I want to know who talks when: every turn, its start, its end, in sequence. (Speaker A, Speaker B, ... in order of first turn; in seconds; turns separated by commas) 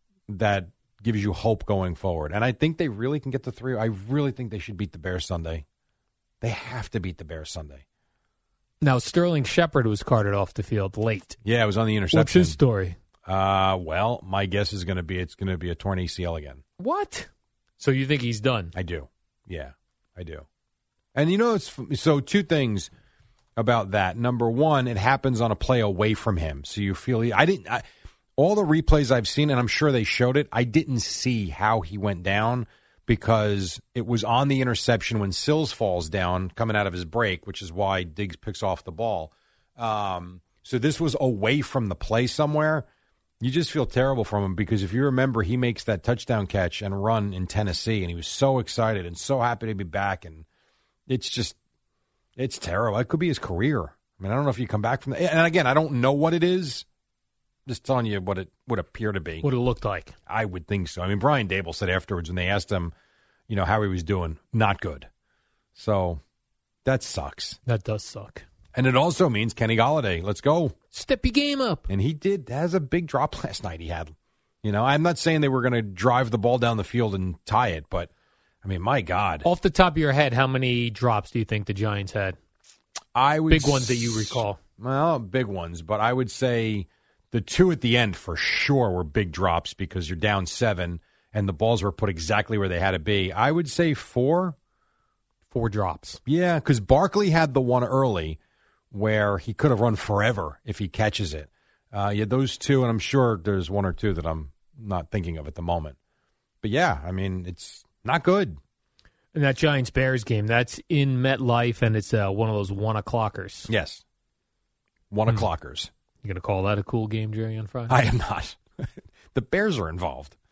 Speaker A: 0.3-5.6, Speaker A: 6.4-7.8, Speaker B: 8.8-11.4, Speaker A: 11.4-12.6, Speaker B: 12.1-13.0, Speaker A: 13.2-16.6, Speaker B: 16.8-18.7, Speaker A: 18.7-20.4, Speaker A: 21.1-22.9, Speaker A: 23.6-27.8, Speaker A: 28.4-42.9, Speaker A: 43.4-50.4, Speaker A: 51.1-51.6, Speaker A: 52.4-56.8, Speaker A: 57.7-59.5, Speaker B: 59.4-60.1, Speaker A: 60.3-62.9, Speaker A: 63.5-65.1, Speaker A: 65.8-66.2, Speaker A: 66.8-67.6, Speaker B: 67.6-68.4, Speaker A: 68.7-70.7, Speaker B: 70.9-71.9, Speaker A: 71.9-74.1, Speaker A: 74.6-78.1, Speaker A: 78.6-79.5, Speaker B: 79.4-82.4, Speaker A: 83.1-94.5, Speaker B: 83.5-84.6, Speaker B: 95.5-96.2, Speaker A: 96.2-98.4, Speaker A: 98.9-106.0, Speaker A: 106.6-108.6, Speaker B: 109.3-113.7, Speaker A: 113.7-114.0, Speaker A: 115.1-115.9, Speaker B: 116.2-118.0, Speaker A: 117.9-120.3